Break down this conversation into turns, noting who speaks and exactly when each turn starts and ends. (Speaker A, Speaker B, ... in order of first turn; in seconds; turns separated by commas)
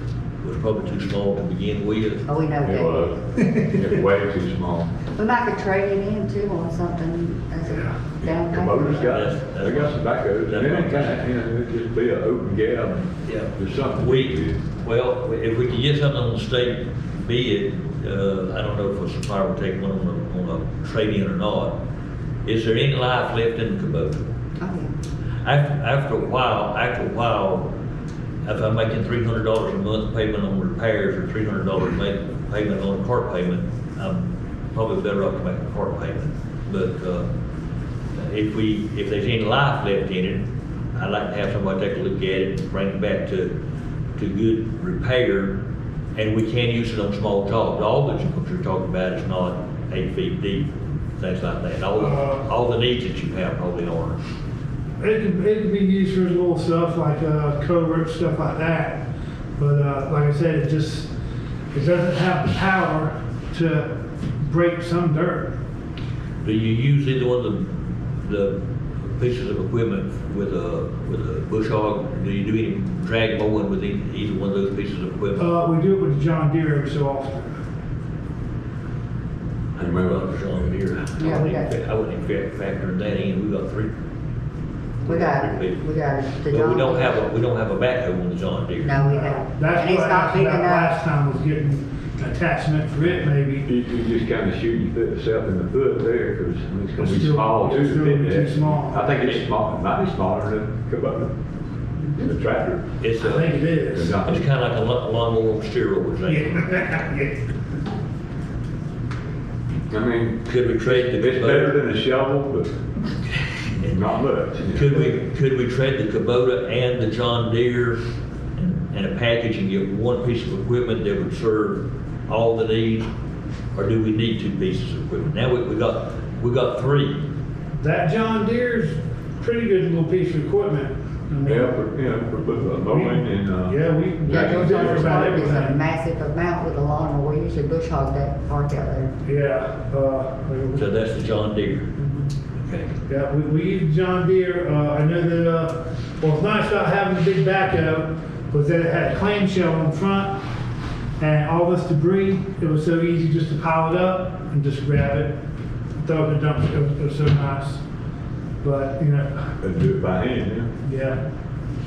Speaker A: 0.4-2.2, Speaker B: 2.3-3.1, Speaker C: 2.6-4.9, Speaker B: 5.2-9.1, Speaker C: 8.2-14.6, Speaker A: 9.0-11.2, Speaker A: 13.2-21.8, Speaker A: 22.4-24.3, Speaker B: 24.6-24.9, Speaker A: 25.4-27.7, Speaker A: 28.4-37.3, Speaker A: 38.1-43.5, Speaker A: 44.2-45.6, Speaker A: 46.1-54.2, Speaker D: 52.0-52.5, Speaker D: 55.0-61.1, Speaker D: 61.7-65.6, Speaker A: 66.4-68.6, Speaker A: 69.1-75.5, Speaker D: 75.4-77.6, Speaker A: 79.8-83.9, Speaker C: 79.8-80.7, Speaker B: 81.2-81.7, Speaker A: 85.1-85.8, Speaker B: 85.1-87.2, Speaker A: 86.5-89.1, Speaker B: 88.8-90.9, Speaker D: 89.0-93.7, Speaker C: 93.7-101.3, Speaker D: 97.0-99.3, Speaker C: 102.2-102.9, Speaker A: 103.0-103.6, Speaker D: 103.2-104.2, Speaker C: 103.9-104.5, Speaker A: 104.1-106.7, Speaker D: 106.3-107.4, Speaker C: 109.9-112.8, Speaker A: 110.5-111.8, Speaker C: 113.7-115.0, Speaker A: 114.7-118.0, Speaker A: 118.6-123.1, Speaker A: 123.7-127.2, Speaker D: 127.7-131.8, Speaker C: 131.4-135.4, Speaker D: 132.7-135.8, Speaker B: 134.2-139.1, Speaker D: 139.2-140.9, Speaker A: 140.8-142.0, Speaker A: 142.6-142.9, Speaker D: 143.1-150.4, Speaker D: 151.2-155.4, Speaker D: 156.0-157.8, Speaker D: 158.6-159.6, Speaker C: 159.6-160.7, Speaker D: 160.8-161.2